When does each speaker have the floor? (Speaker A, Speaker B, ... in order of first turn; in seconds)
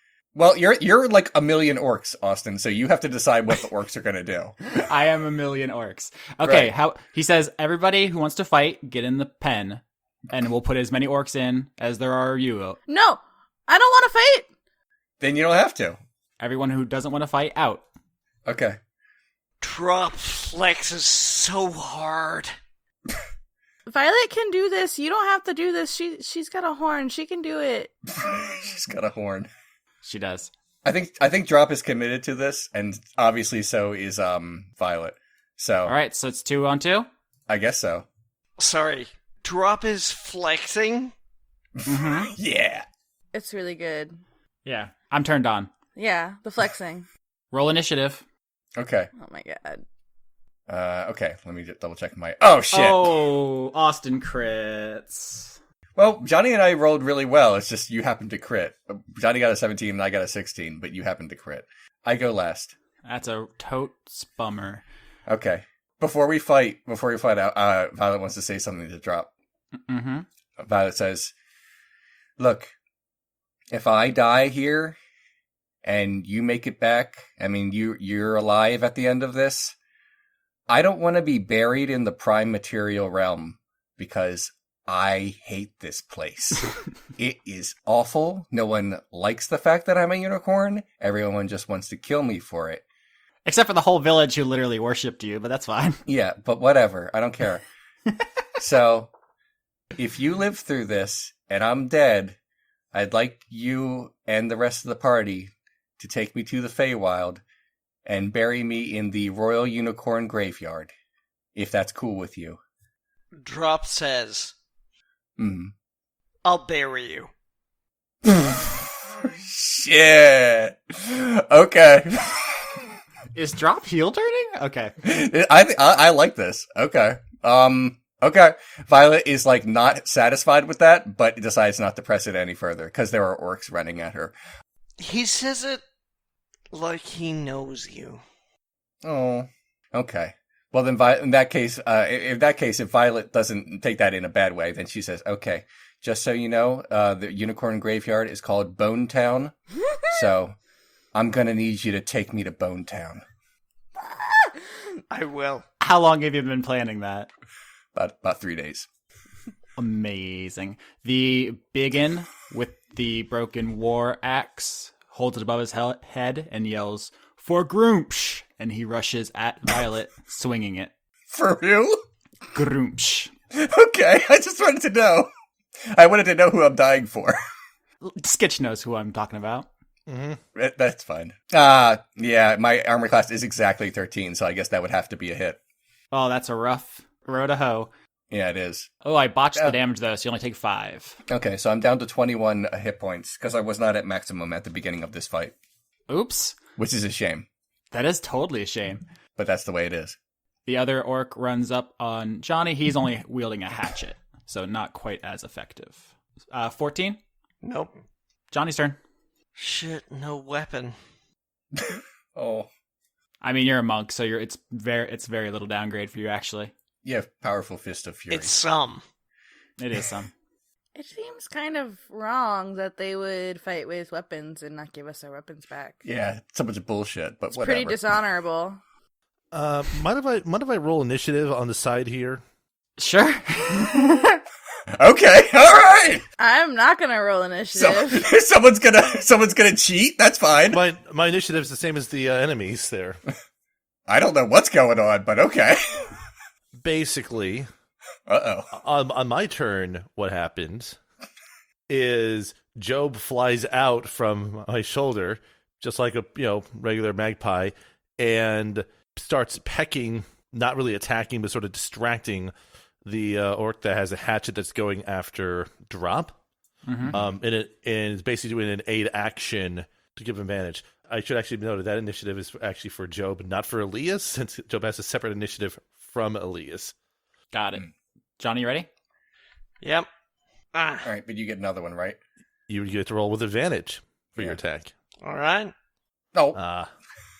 Speaker A: 0.3-4.5, 6.4-6.7, 15.2-16.0, 18.4-18.8, 28.1-29.5, 30.8-35.9, 37.5-38.0, 41.8-42.9, 48.8-49.1, 50.7-53.2, 56.0-62.7, 65.3-69.3, 70.6-71.3, 72.4-72.7, 73.7-75.0, 75.8-79.7, 80.7-92.8, 96.1-97.6, 98.6-99.1, 100.0-102.3, 102.9-107.4, 108.0-110.9, 111.5-112.6, 115.4-115.7, 118.2-122.9, 125.0-134.3, 139.0-149.5, 150.1-150.5, 151.1-153.2, 157.9-158.9, 171.3-172.0, 173.5-175.3, 175.8-177.4, 180.5-185.6, 188.3-188.9, 191.3-195.5, 196.8-197.4, 199.3-200.2, 211.7-212.7, 217.0-218.5, 226.0-228.2, 234.9-236.2, 237.7-240.8, 244.1-246.2, 248.3-248.7, 281.0-282.2, 286.3-286.6
Speaker B: 4.8-12.8, 16.4-17.8, 30.0-30.5, 35.9-37.1, 41.9-42.3, 44.6-45.7, 47.5-48.2, 52.7-55.5, 63.0-64.8, 69.9-70.2, 93.5-96.0, 123.3-124.9, 155.8-157.3, 159.8-170.9, 172.5-173.3, 178.0-179.7, 186.1-187.9, 189.0-191.2, 196.1-196.6, 197.9-199.0, 200.7-207.2, 208.5-209.0, 213.4-216.7, 219.8-220.3, 233.0-234.4, 266.9-267.2, 277.5-277.9, 278.4-278.9
Speaker C: 12.9-14.5, 23.9-27.9, 43.3-44.2, 46.0-47.0, 49.1-49.8, 220.9-226.0, 227.5-228.8, 236.4-238.2
Speaker D: 19.6-22.5, 38.6-41.1, 113.4-114.5, 116.4-117.3, 135.0-135.8, 136.7-138.2, 155.1-155.6, 207.6-207.9, 209.6-210.9, 218.3-219.0, 279.8-280.1, 280.7-281.1, 285.2-285.7
Speaker E: 180.1-180.4, 229.5-232.4, 240.7-243.2, 246.8-247.7, 248.7-251.0, 251.9-262.5, 263.0-266.3, 267.1-276.9, 282.7-284.9, 286.5-286.9